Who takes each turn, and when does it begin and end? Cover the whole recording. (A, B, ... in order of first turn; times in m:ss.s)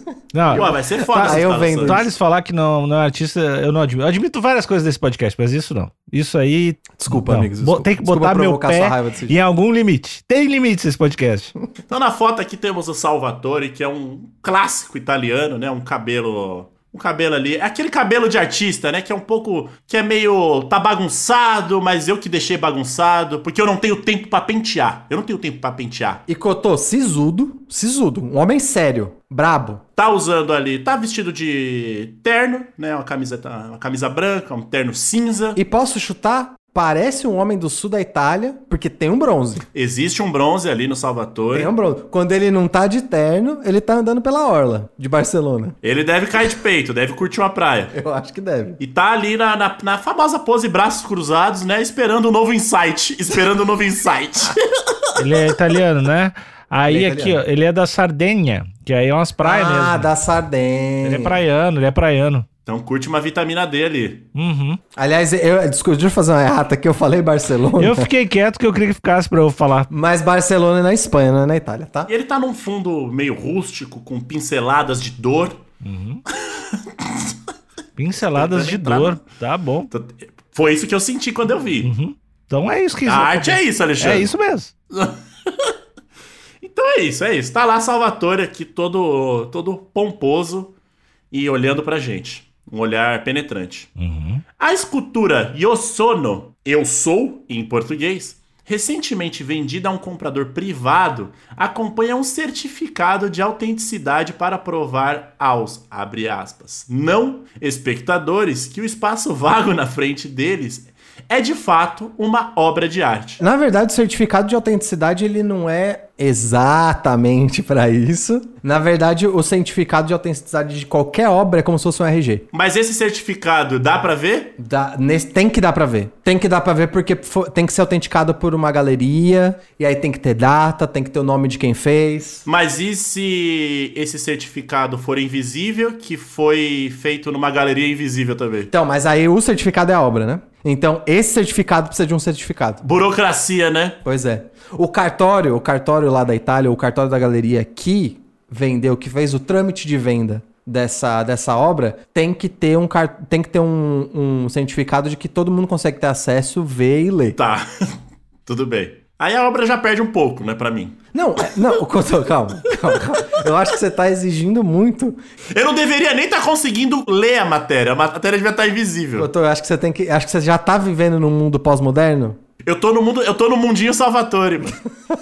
0:00.3-0:11.5 A
0:00.5-0:02.0 B
0:00.5-0:02.1 C
0:07.0-0:09.4 C
0:11.9-0:26.2 B
0:26.3-0:29.8 C
0:30.0-0:35.6 B
0:35.6-0:39.6 C
0:39.7-0:41.7 B
0:41.5-0:45.8 C
0:45.8-0:47.9 B
0:47.9-0:48.8 C
0:48.8-0:55.0 B
0:55.1-1:00.1 A
0:56.8-0:57.4 C
0:59.4-1:01.4 C
1:01.0-1:02.4 A
1:02.6-1:04.2 B
1:04.3-1:04.8 A
1:05.0-1:08.1 C
1:07.8-1:09.9 A
1:09.9-1:12.1 C
1:12.1-1:15.6 B
1:15.8-1:16.2 A
1:16.4-1:17.3 B
1:18.0-1:19.9 A
1:18.3-1:19.2 B
1:19.9-1:21.9 B
1:21.8-1:24.7 A
1:23.0-1:24.3 B
1:24.9-1:25.7 B
1:26.6-1:30.7 B
1:31.3-1:33.9 B
1:34.0-1:34.4 A
1:34.6-1:53.4 B
1:53.4-2:02.4 C
2:02.5-2:04.5 B
2:04.6-2:12.4 C
2:12.5-2:18.7 B
2:18.7-2:22.8 C
2:22.8-2:24.0 B
2:24.0-2:37.4 C
2:37.4-2:41.0 B
2:41.1-2:45.2 C
2:45.5-2:49.3 B
2:49.2-2:52.4 C
2:52.6-2:54.8 B